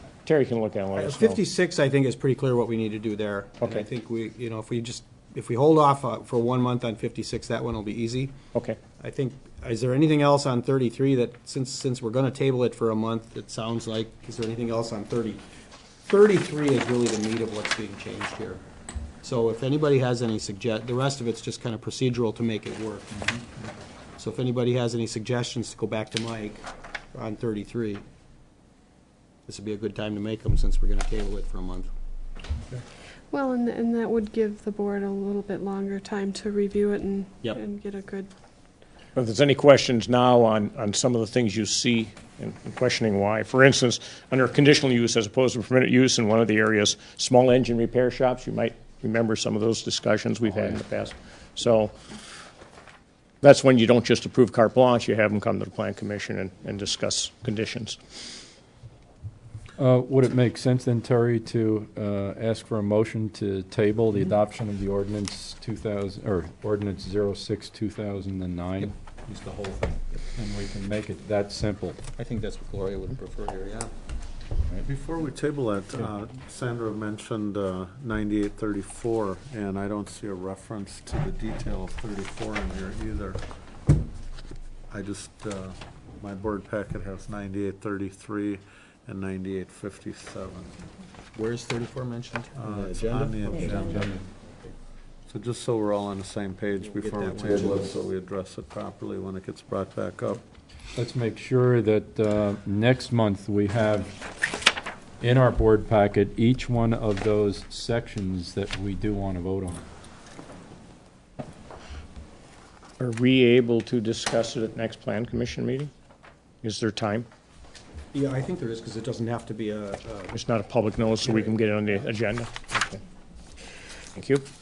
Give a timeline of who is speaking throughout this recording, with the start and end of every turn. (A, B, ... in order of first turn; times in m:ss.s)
0:00.2-0:01.4 A
0:01.0-0:08.3 B
0:03.6-0:03.9 A
0:09.0-0:15.4 B
0:16.1-0:18.6 B
0:19.2-0:23.3 B
0:24.2-0:28.0 B
0:29.5-0:31.9 B
0:33.3-0:38.3 C
0:39.2-0:52.0 A
0:53.4-0:58.4 A
0:59.8-1:12.0 D
1:12.2-1:13.9 B
1:14.8-1:23.4 E
1:24.9-1:30.9 E
1:31.4-1:34.7 B
1:32.6-1:34.2 E
1:35.3-1:40.4 E
1:36.8-1:38.0 B
1:41.0-1:44.2 D
1:45.2-1:49.8 D
1:53.0-1:55.9 A
1:56.6-1:57.3 A
1:58.1-2:00.3 B
2:00.3-2:03.0 A
2:01.2-2:01.5 B
2:04.1-2:04.4 A